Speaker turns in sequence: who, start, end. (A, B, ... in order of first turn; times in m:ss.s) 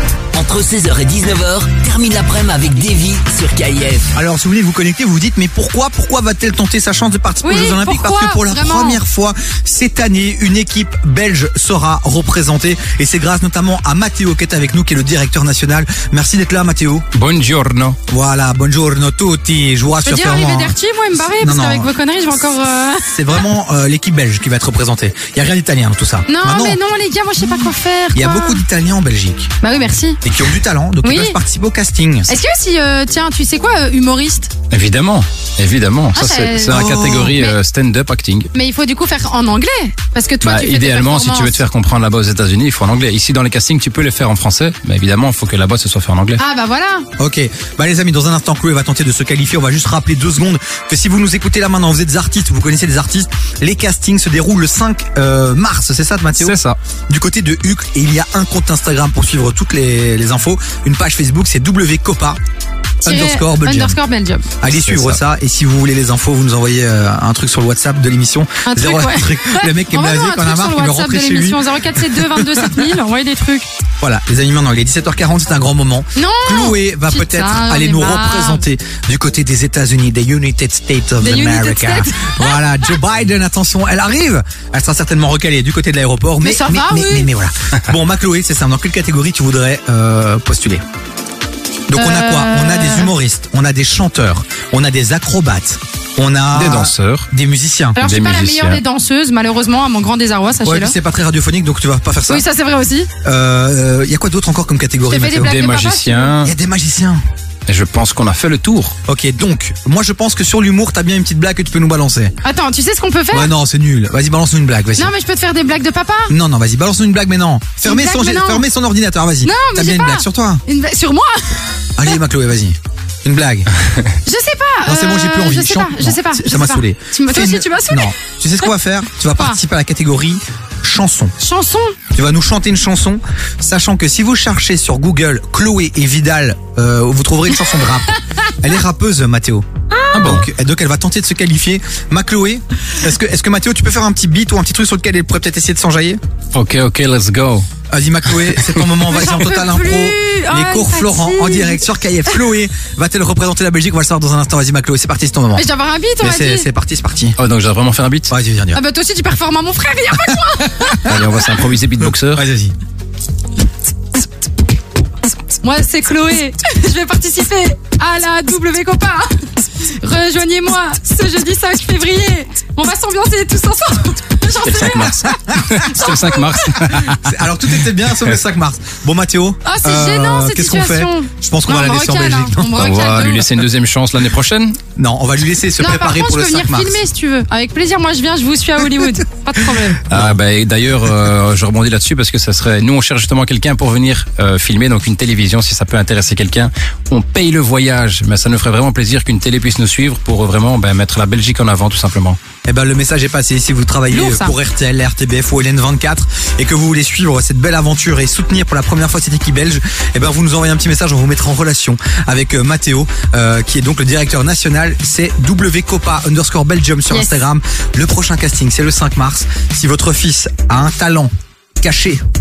0:00.3-0:04.1 A
0:04.1-0:17.0 B
0:07.4-0:09.0 C
0:17.1-0:18.0 D
0:18.1-0:20.7 B
0:20.0-0:23.4 C
0:21.4-0:21.9 B
0:23.0-0:26.8 B
0:26.3-0:28.6 C
0:28.1-0:29.5 B
0:29.6-0:30.2 C
0:30.2-0:32.3 B
0:31.0-0:31.4 C
0:32.3-0:34.5 C
0:34.7-0:38.5 D
0:36.1-0:37.5 C
0:38.5-0:41.6 C
0:40.4-0:46.4 D
0:46.4-0:47.1 C
0:47.2-0:56.5 B
0:56.4-0:56.8 D
0:57.1-1:02.4 B
1:03.0-1:04.0 B
1:03.0-1:04.5 C
1:04.6-1:12.7 B
1:04.7-1:05.2 D
1:08.6-1:13.7 C
1:14.0-1:30.8 B
1:16.1-1:18.6 C
1:21.2-1:22.6 C
1:26.4-1:27.3 C
1:31.9-1:38.0 B
1:31.9-1:33.1 C
1:36.5-1:37.3 D
1:37.9-1:40.9 C
1:38.0-1:38.8 D
1:40.6-1:42.4 B
1:42.3-1:43.1 C
1:43.2-1:45.5 B
1:45.1-1:46.3 C
1:45.4-1:46.5 D
1:46.4-1:47.2 B
1:47.7-1:48.9 D
1:49.1-1:52.3 B
1:52.4-1:53.5 C
1:53.3-1:55.1 B
1:55.0-1:56.3 C
1:56.3-2:00.6 B
1:57.8-1:58.6 C
1:59.4-2:01.6 C
2:02.0-2:03.7 B
2:04.2-2:08.6 C
2:04.8-2:11.3 B
2:11.4-2:12.0 C
2:12.1-2:26.2 B
2:20.2-2:20.4 D
2:26.5-2:27.7 D
2:27.9-2:35.6 B
2:28.5-2:28.8 D
2:29.0-2:32.3 C
2:35.6-2:36.7 C
2:36.2-2:37.4 B
2:37.4-2:38.3 D
2:38.3-2:38.8 B
2:38.7-2:41.2 C
2:41.0-2:42.4 D
2:42.3-2:42.7 B
2:45.6-2:56.8 C
2:54.6-2:57.4 D
2:55.2-2:55.6 B
2:56.9-3:02.9 B
2:59.6-3:03.5 C
3:02.7-3:04.8 D
3:05.0-3:07.0 B
3:05.8-3:10.0 C
3:10.1-3:22.4 D
3:22.6-3:42.2 B
3:24.1-3:24.5 C
3:37.1-3:37.4 C